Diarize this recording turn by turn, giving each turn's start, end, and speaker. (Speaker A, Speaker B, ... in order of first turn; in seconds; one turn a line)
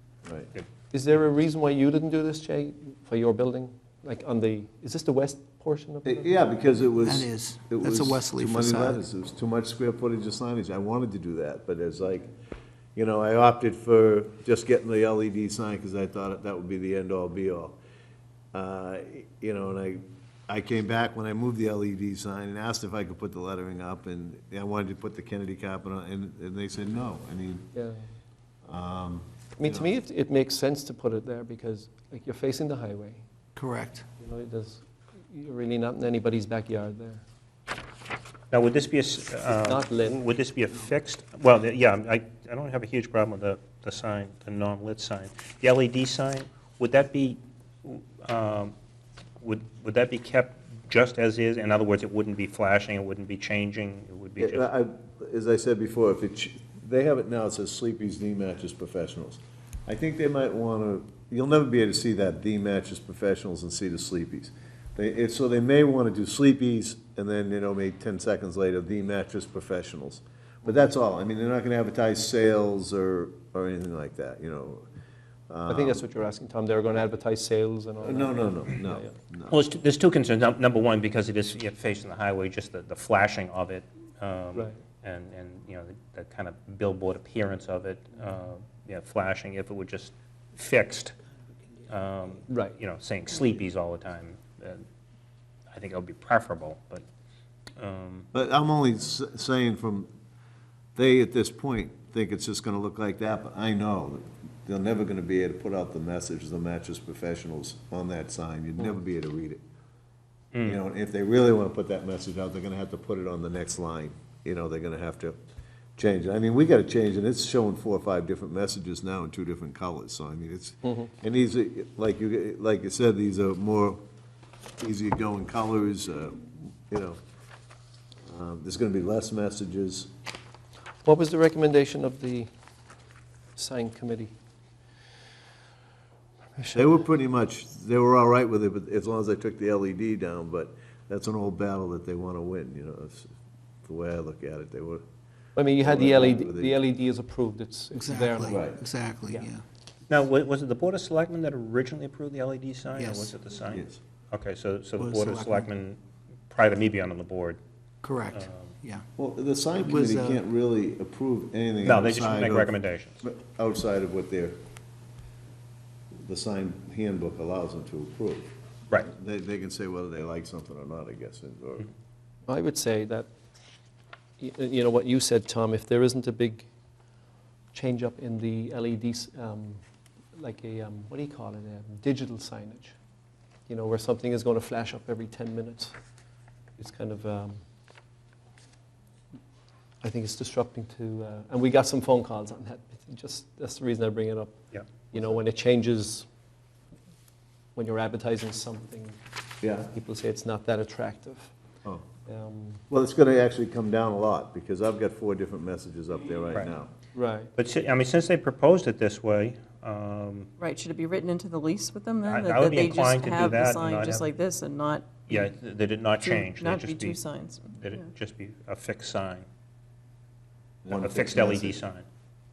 Speaker A: 0.9-6.4
Speaker B: 6.0-12.3
Speaker C: 7.0-9.0
Speaker B: 12.9-17.8
Speaker B: 18.5-27.7
Speaker A: 27.7-28.0
Speaker B: 28.7-29.9
Speaker A: 29.6-33.2
Speaker C: 33.5-34.0
Speaker A: 34.2-37.2
Speaker D: 38.5-48.7
Speaker A: 39.5-40.2
Speaker D: 49.4-54.7
Speaker B: 54.4-74.8
Speaker B: 75.5-76.0
Speaker A: 75.7-79.2
Speaker B: 78.0-79.6
Speaker D: 79.5-91.1
Speaker D: 91.9-94.8
Speaker A: 92.5-92.8
Speaker D: 95.7-97.0
Speaker D: 97.8-98.3
Speaker B: 98.3-100.1
Speaker B: 101.0-109.6
Speaker D: 110.5-110.8
Speaker B: 110.6-115.3
Speaker B: 116.0-124.0
Speaker A: 120.8-121.1
Speaker B: 124.8-127.2
Speaker B: 128.2-130.1
Speaker A: 131.0-132.5
Speaker A: 133.6-134.3
Speaker B: 136.7-143.3
Speaker B: 143.8-145.0
Speaker A: 145.6-148.6
Speaker B: 145.8-146.8
Speaker C: 147.9-149.6
Speaker B: 148.5-148.8
Speaker D: 150.1-156.0
Speaker C: 152.9-153.3
Speaker B: 153.7-154.0
Speaker C: 155.0-155.7
Speaker D: 156.5-157.6
Speaker C: 158.0-159.0
Speaker D: 158.3-158.7
Speaker B: 159.2-162.7
Speaker C: 159.8-160.4
Speaker D: 161.8-163.2
Speaker B: 163.2-164.6
Speaker B: 166.2-168.5
Speaker B: 169.1-171.9
Speaker A: 172.4-173.3
Speaker A: 174.4-176.7
Speaker A: 177.7-179.8
Speaker A: 180.3-182.9
Speaker A: 183.7-185.9
Speaker A: 186.8-187.6
Speaker A: 190.0-194.5
Speaker A: 195.1-196.2
Speaker A: 197.7-199.2
Speaker B: 199.6-199.9
Speaker A: 199.9-201.5
Speaker A: 202.3-202.8
Speaker B: 202.9-206.9
Speaker A: 207.1-207.5
Speaker D: 207.6-210.5
Speaker E: 210.6-215.3
Speaker D: 212.2-214.3
Speaker D: 215.3-217.2
Speaker E: 216.2-217.8
Speaker D: 217.7-219.4
Speaker B: 220.8-221.8
Speaker D: 220.9-222.0